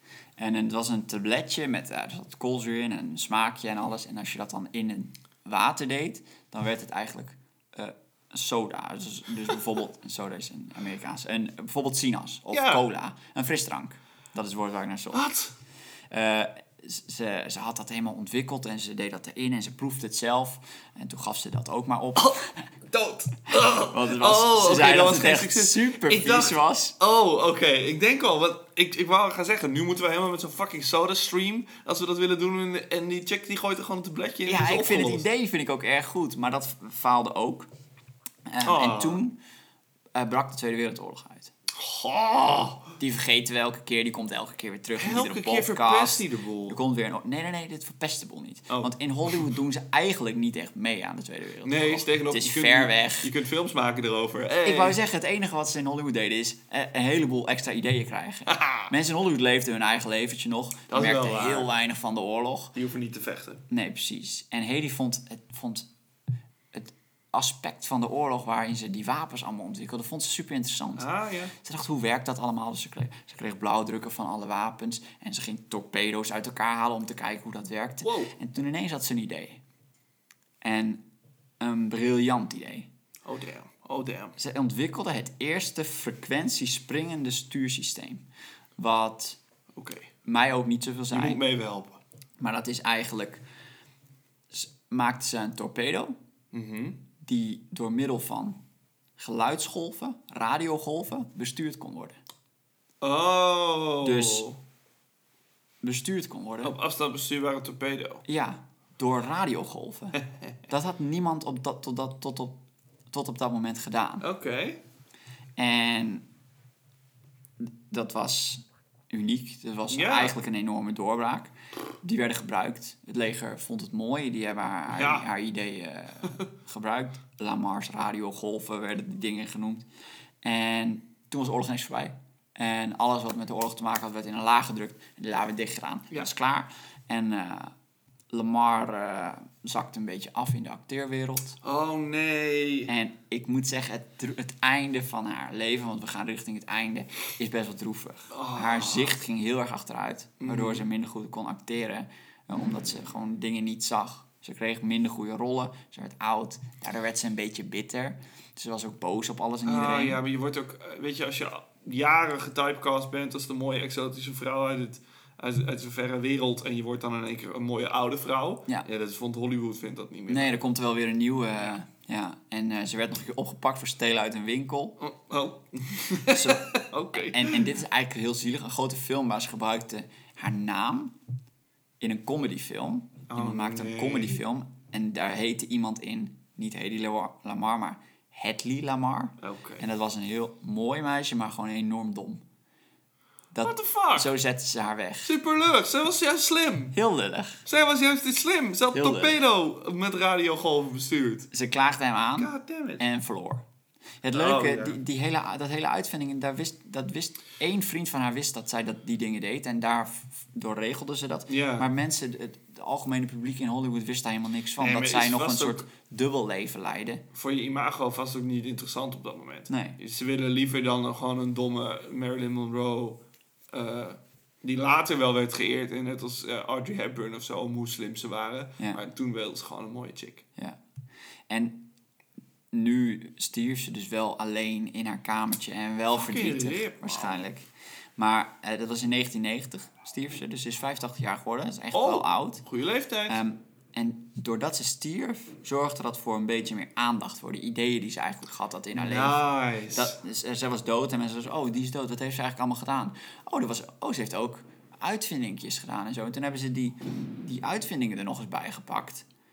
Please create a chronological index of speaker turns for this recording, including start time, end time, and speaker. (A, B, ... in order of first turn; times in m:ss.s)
0:00.4-0:15.3 A
0:12.5-0:12.8 B
0:15.1-0:15.5 B
0:16.1-0:22.6 A
0:22.9-0:35.3 B
0:23.6-0:27.0 A
0:34.5-0:37.7 A
0:38.5-0:39.4 A
0:38.6-0:39.2 B
0:40.2-0:41.5 A
0:41.8-0:42.9 B
0:43.0-0:53.3 A
0:45.0-0:46.8 B
0:48.7-0:49.4 B
0:51.6-0:55.0 B
0:54.6-1:02.8 A
0:58.5-0:58.9 B
1:00.9-1:01.7 B
1:02.8-1:03.6 B
1:03.7-1:05.9 A
1:06.7-1:19.6 A
1:11.0-1:11.5 B
1:18.0-1:18.4 B
1:20.6-1:21.0 A
1:21.6-1:22.9 A
1:23.2-1:24.4 B
1:24.4-1:28.2 A
1:28.8-1:29.4 A
1:29.7-1:30.1 B
1:30.2-1:31.4 A
1:31.1-1:32.0 B
1:32.4-1:33.4 A
1:34.5-1:36.2 A
1:36.5-1:37.0 B
1:37.2-1:38.6 A
1:39.2-1:42.2 A
1:43.0-1:44.6 B
1:44.0-1:44.5 A
1:45.8-1:46.8 A
1:46.6-1:48.2 B
1:48.3-1:52.6 A
1:53.1-1:54.3 A
1:54.2-1:54.8 B
1:55.6-1:56.3 A
1:57.6-2:09.8 A
1:59.9-2:00.4 B
2:04.9-2:05.3 B
2:10.4-2:17.7 A
2:18.3-2:21.6 A
2:21.6-2:22.9 B
2:22.9-2:40.2 A
2:28.3-2:29.2 B
2:30.4-2:30.9 B
2:39.6-2:50.6 B
2:50.3-2:55.0 A
2:55.0-2:57.7 B
2:56.3-3:01.2 A
3:02.0-3:12.4 A
3:03.3-3:04.4 B
3:09.4-3:09.8 B
3:13.5-3:15.4 A
3:13.6-3:14.3 B
3:15.2-3:17.0 B
3:16.9-3:17.6 A
3:17.7-3:21.5 B
3:18.9-3:19.4 A
3:21.5-3:23.6 A
3:22.4-3:23.0 B
3:24.2-3:37.2 A
3:24.3-3:25.0 B
3:31.5-3:31.9 B
3:34.8-3:35.8 B
3:37.3-3:50.4 B
3:39.7-3:40.0 A
3:51.5-3:51.9 A
3:52.7-4:02.6 A
3:56.1-3:57.4 B
4:01.9-4:03.4 B
4:03.3-4:19.3 A
4:09.0-4:10.2 B